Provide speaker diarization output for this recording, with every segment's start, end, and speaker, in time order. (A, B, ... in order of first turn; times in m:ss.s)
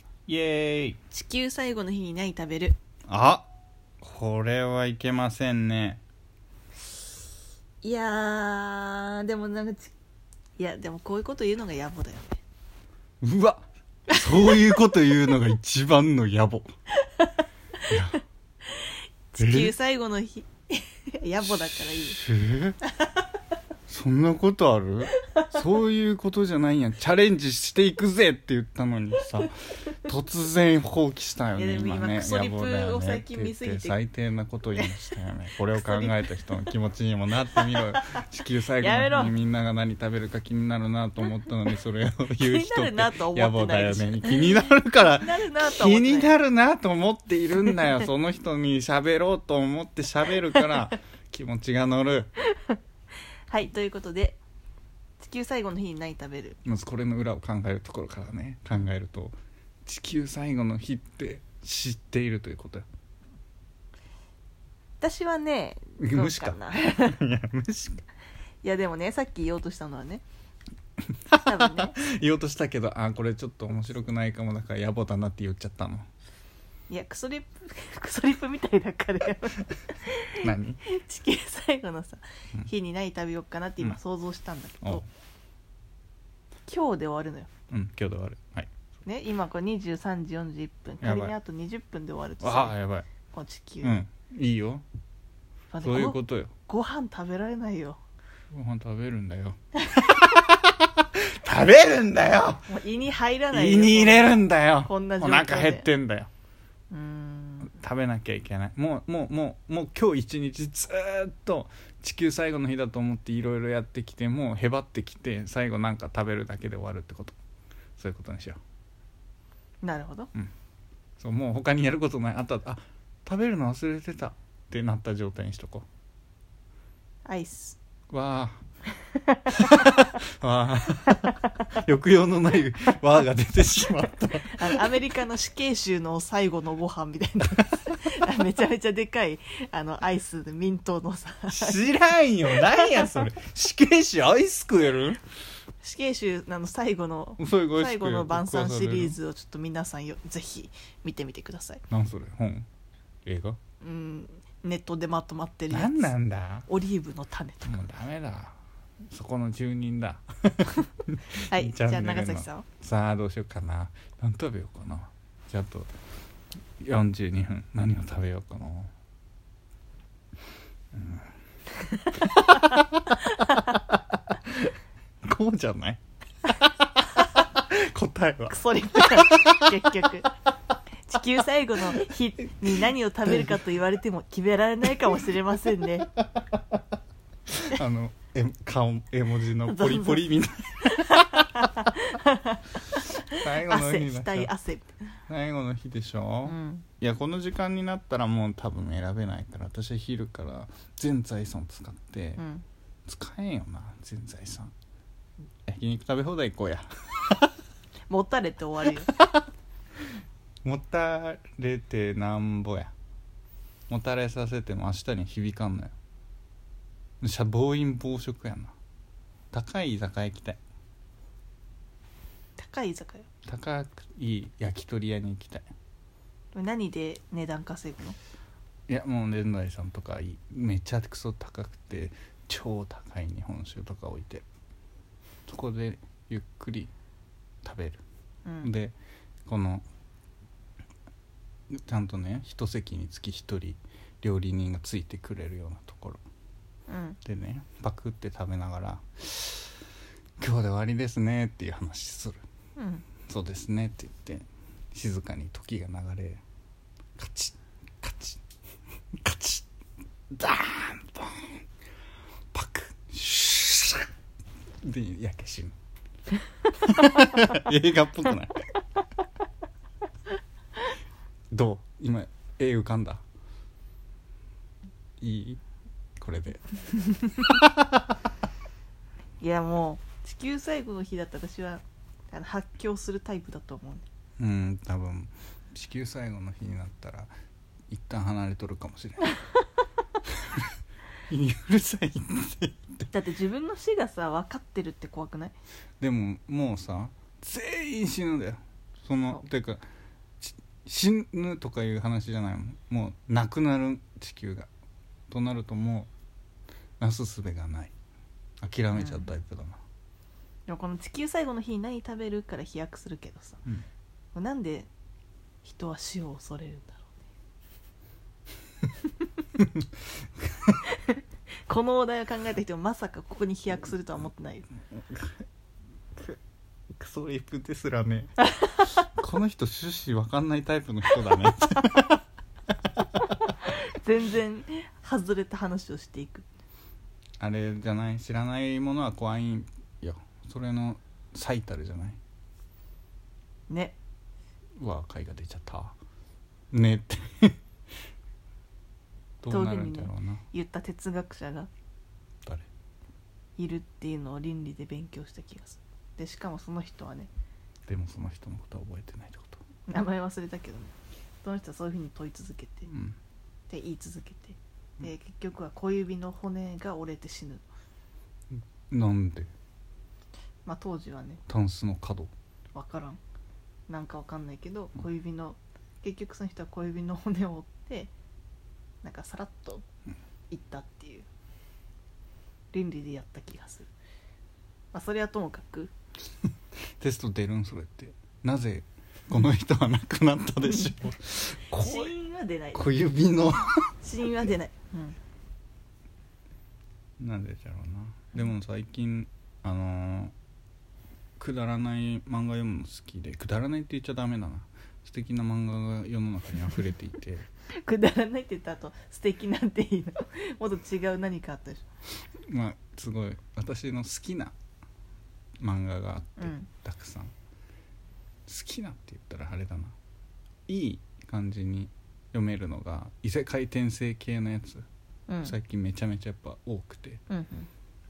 0:00.3-0:01.0 A
0:01.1-0:02.8 B
0:03.1-0:03.5 A
0:04.0-0:06.0 A
0:07.8-0:09.9 B
0:10.6-0:12.4 B
0:13.2-0:16.7 A
0:14.1-0:14.6 B
0:17.9-0:18.2 A
0:19.3-0:22.2 B
0:19.4-0:19.7 A
0:21.4-0:22.8 A
0:22.8-0:23.2 B
0:23.9-0:52.3 A
0:31.5-0:34.0 B
0:34.8-0:35.1 B
0:35.7-0:36.2 B
0:38.8-0:39.3 B
0:42.4-0:44.4 B
0:45.2-0:46.3 B
0:52.5-0:52.8 B
0:53.5-0:54.4 B
0:55.2-0:56.6 B
0:56.6-1:02.8 A
1:05.0-1:07.2 B
1:06.0-1:08.0 A
1:08.6-1:10.2 B
1:11.3-1:16.0 A
1:11.4-1:12.0 B
1:16.9-1:25.0 B
1:20.4-1:20.8 A
1:26.7-1:27.5 B
1:27.7-1:28.7 A
1:29.0-1:32.7 B
1:31.0-1:31.3 A
1:32.4-1:33.1 A
1:33.2-1:34.0 B
1:33.8-1:34.8 A
1:35.7-1:38.0 B
1:35.8-1:36.5 A
1:38.5-1:42.7 A
1:42.7-1:45.9 B
1:43.5-1:46.3 A
1:46.9-1:47.7 B
1:47.6-1:57.4 A
1:58.0-1:58.6 A
1:59.8-2:00.3 B
2:01.2-2:05.8 A
2:07.2-2:07.8 B
2:08.1-2:08.6 A
2:09.1-2:09.9 B
2:09.5-2:14.8 A
2:11.1-2:11.6 B
2:14.4-2:21.8 B
2:21.5-2:25.2 A
2:22.5-2:23.0 B
2:25.8-2:31.8 B
2:27.4-2:29.2 A
2:31.9-2:32.7 A
2:33.2-2:33.6 A
2:33.8-2:36.1 B
2:35.7-2:36.7 A
2:36.7-2:37.8 B
2:37.6-2:38.6 A
2:39.1-2:45.9 A
2:41.4-2:42.7 B
2:46.8-2:48.9 A
2:50.9-2:51.3 A
2:52.2-2:53.8 B
2:52.2-2:56.0 A
2:56.8-2:59.9 A
2:58.5-3:00.3 B
3:01.0-3:06.1 B
3:07.5-3:11.5 A
3:09.7-3:10.3 B
3:11.0-3:15.0 B
3:13.3-3:14.5 A
3:15.3-3:22.4 A
3:16.4-3:16.8 B
3:22.4-3:22.6 B
3:23.1-3:24.7 A
3:25.6-3:27.5 A
3:28.1-3:29.1 B
3:30.6-3:32.9 A
3:33.9-3:35.9 A
3:37.2-3:38.7 A
3:39.5-3:40.6 A
3:42.6-3:43.3 B
3:43.4-3:45.6 A
3:46.5-3:48.2 B
3:48.9-3:54.4 A
3:55.5-3:56.9 A
3:57.6-3:58.0 A
3:58.4-3:58.7 B
3:58.6-3:58.9 A
3:59.4-3:59.8 A
4:01.7-4:06.2 A
4:06.9-4:07.2 B
4:07.2-4:09.8 A
4:10.4-4:12.4 A
4:12.8-4:13.0 B
4:13.3-4:16.4 A
4:17.2-4:18.4 A
4:19.2-4:19.7 A
4:20.3-4:21.6 A
4:22.5-4:24.1 A
4:24.8-4:25.7 A
4:26.8-4:28.6 A
4:31.5-4:33.2 A
4:35.2-4:35.6 A
4:36.2-4:38.1 A
4:39.4-4:44.0 B
4:44.4-4:47.3 A
4:47.9-4:49.3 A
4:50.3-4:50.7 A
4:51.3-4:53.1 A
4:53.1-4:55.5 B
4:56.0-4:59.8 A
5:00.4-5:04.7 A
5:05.3-5:06.1 A
5:07.0-5:07.9 A
5:08.6-5:09.8 A
5:09.0-5:09.3 B
5:10.7-5:13.6 B
5:14.3-5:14.9 B
5:15.6-5:17.1 B
5:19.6-5:19.9 A
5:20.4-5:20.8 A
5:20.8-5:24.7 B
5:24.9-5:25.4 A
5:26.9-5:32.2 A
5:33.4-5:36.4 B
5:37.4-5:42.2 A
5:43.7-5:44.0 B
5:44.8-5:45.9 A
5:46.7-5:47.6 A
5:49.4-5:50.4 A
5:49.5-5:51.7 B
5:53.6-5:57.3 B
5:57.9-5:59.6 A
5:59.9-6:02.9 B
6:02.9-6:03.2 A
6:03.7-6:07.6 B
6:08.5-6:09.5 A
6:10.6-6:11.4 B
6:11.5-6:12.3 A
6:12.7-6:13.2 B
6:13.9-6:18.1 B
6:19.0-6:19.8 B
6:20.5-6:21.3 B
6:22.7-6:23.9 B
6:24.9-6:25.9 B
6:27.0-6:32.1 A
6:30.6-6:30.9 B
6:31.7-6:32.8 B
6:32.7-6:33.9 A
6:34.0-6:35.2 B
6:37.2-6:40.3 A
6:41.4-6:47.5 A
6:47.8-6:51.8 B
6:52.5-6:54.5 A
6:55.6-6:57.3 A
6:56.4-6:56.7 B
6:58.5-6:59.9 A
7:00.7-7:04.8 A
7:05.3-7:05.5 B
7:05.4-7:07.2 A
7:07.3-7:07.7 B